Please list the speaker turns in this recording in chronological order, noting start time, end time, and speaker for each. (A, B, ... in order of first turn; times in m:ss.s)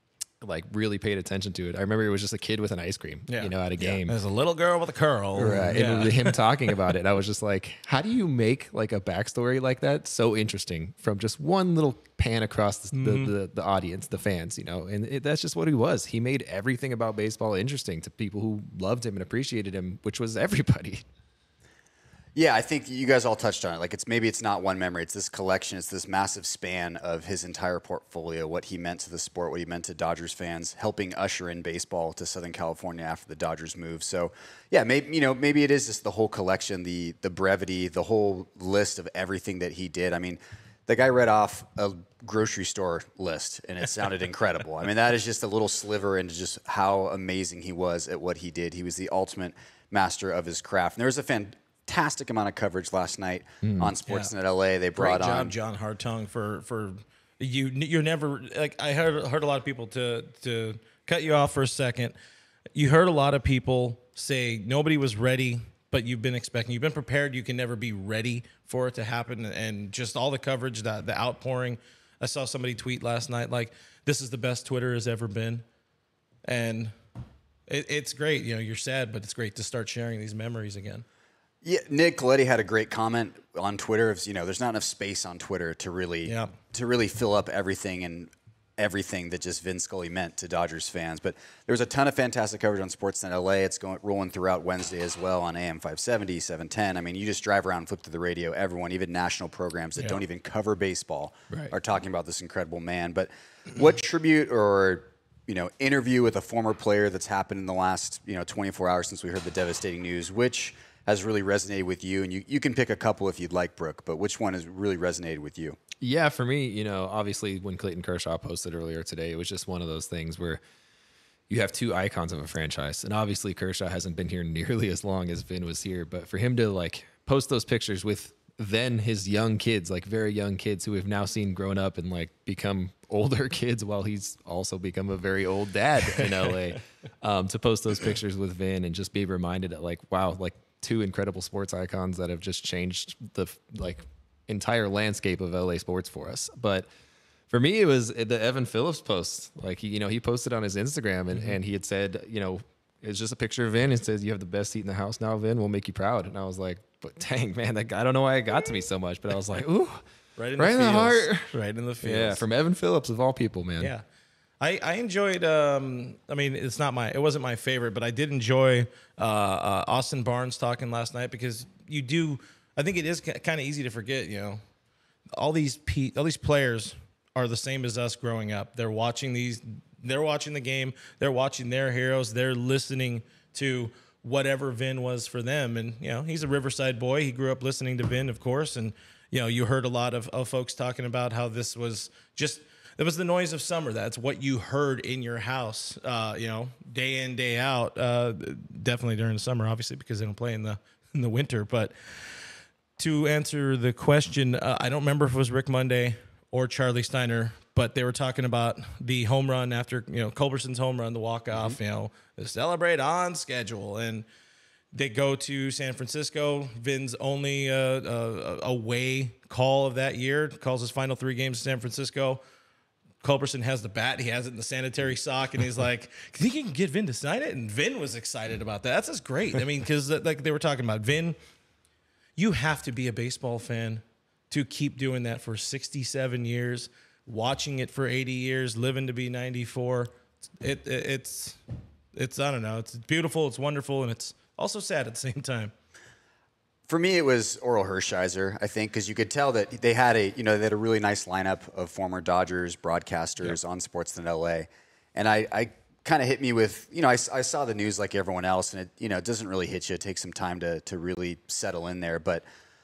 0:00.4-0:04.2 A
0:03.3-0:06.4 B
0:05.4-0:21.0 A
0:12.9-0:13.3 B
0:22.4-0:55.6 C
0:53.6-0:53.9 A
0:54.1-0:54.3 B
0:55.0-1:02.2 B
1:02.8-1:15.6 B
1:16.4-1:16.9 B
1:17.7-1:21.0 B
1:21.6-1:55.8 C
1:26.3-1:26.5 B
1:56.0-2:00.6 A
2:01.5-2:26.9 A
2:27.5-2:40.0 A
2:40.4-2:42.4 B
2:40.6-2:43.9 A
2:43.8-2:44.0 B
2:44.6-2:54.6 B
2:55.4-3:22.4 B
3:23.0-3:34.2 B
3:34.9-3:42.4 B
3:43.2-3:51.4 B
3:52.4-4:01.6 B
4:02.2-4:05.7 B
4:06.9-4:22.4 C